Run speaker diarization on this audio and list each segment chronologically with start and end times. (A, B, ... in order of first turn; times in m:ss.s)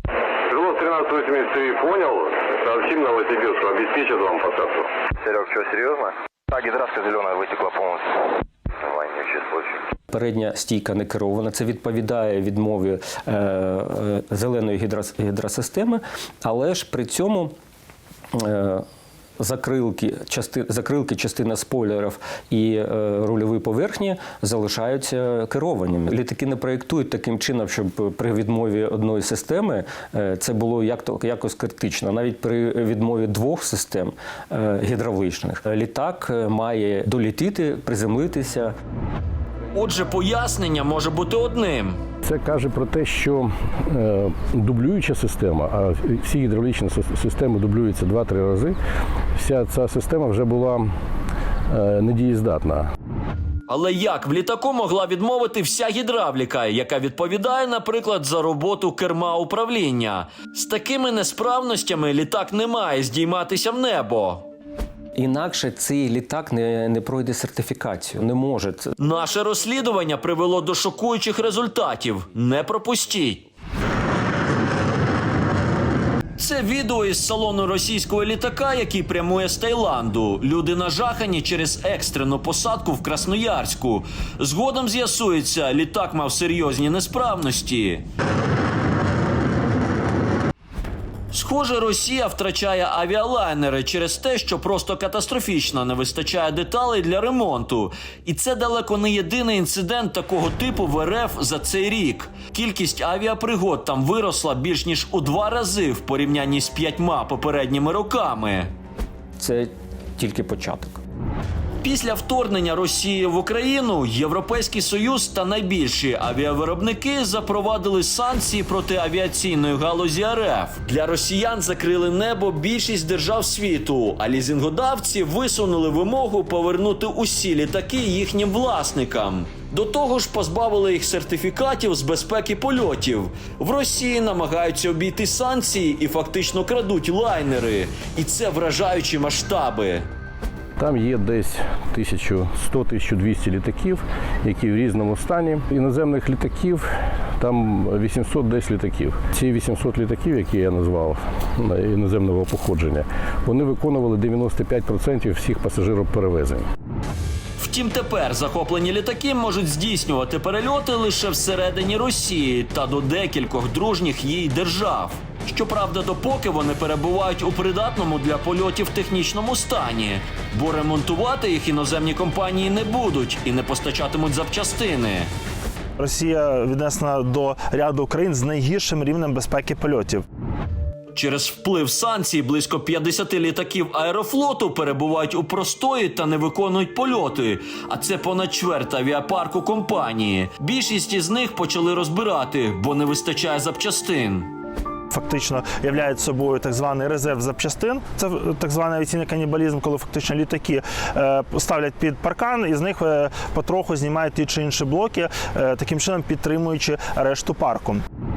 0:00.5-0:04.9 A
0:05.2-0:09.8 B
0:10.1-0:17.5 C
0:18.3-0:18.8 C
0:19.4-0:38.7 C
0:39.7-0:42.0 D
0:42.2-0:48.8 E
0:49.4-0:50.9 E
0:51.7-0:52.9 E
0:53.7-1:04.5 D
1:05.2-1:08.9 C
1:09.0-1:13.4 D
1:16.4-1:28.0 D
1:31.3-1:48.7 D
1:49.4-1:51.0 C
1:51.8-2:20.1 D
2:20.8-2:36.7 E
2:37.6-2:55.3 D
2:56.0-3:00.3 F
3:01.1-3:14.5 D
3:15.1-3:28.0 F